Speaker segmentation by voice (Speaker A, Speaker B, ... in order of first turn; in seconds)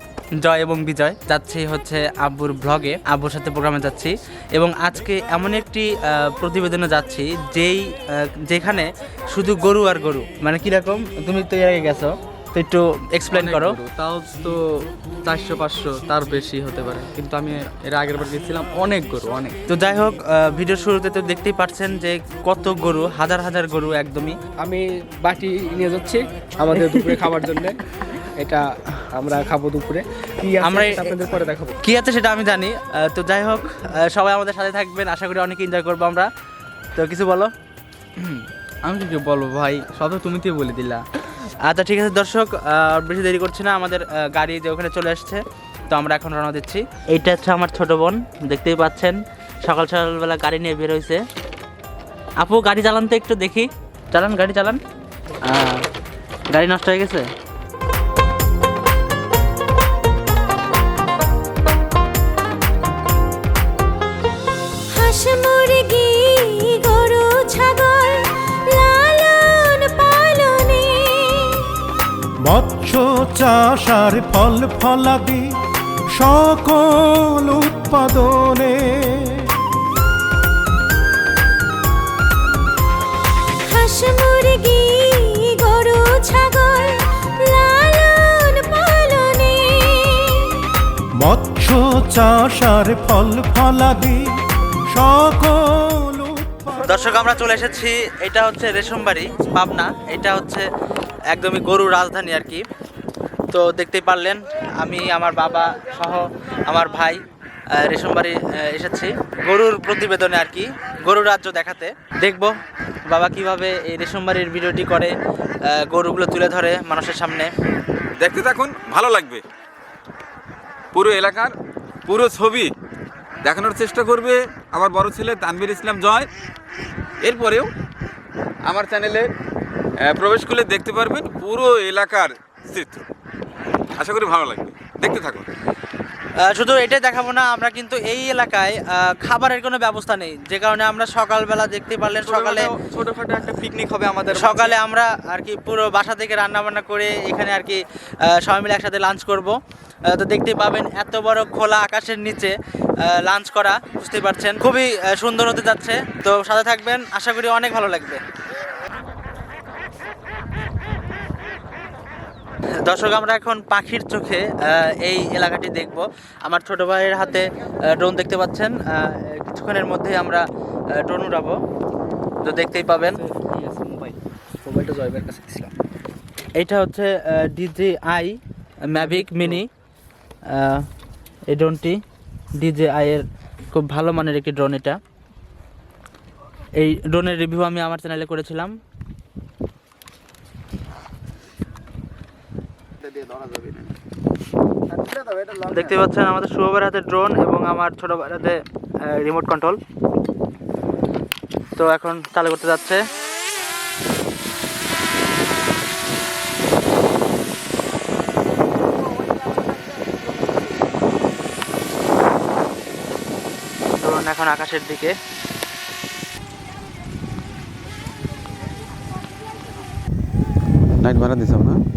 Speaker A: 0.4-13.8, 19.7-24.3, 30.6-31.1, 31.8-36.3, 37.0-37.5, 41.6-51.2, 52.4-54.8, 55.4-55.8, 56.5-57.2, 96.8-100.7, 101.3-102.6, 103.5-107.2, 107.7-112.5, 113.0-115.1, 115.7-117.5, 136.4-142.7, 144.3-149.6, 150.1-158.2, 162.8-170.4, 170.9-171.6, 172.4-173.2, 176.6-179.7, 180.5-180.8, 181.5-182.0, 182.6-185.0, 186.8-188.7, 195.6-199.8, 201.8-203.0, 214.0-215.2
Speaker B: 13.3-19.6, 38.2-41.0, 142.2-144.7
Speaker C: 24.6-27.8, 28.4-31.8, 173.2-175.7, 179.0-179.5, 195.1-195.4
Speaker D: 64.9-71.8, 83.6-90.6
Speaker E: 72.4-75.5, 76.1-79.5, 91.2-96.8
Speaker F: 118.2-119.4, 120.9-121.5, 122.0-122.7, 123.4-126.3, 127.2-127.7, 128.7-129.3, 130.0-133.0, 134.0-135.5, 221.0-221.8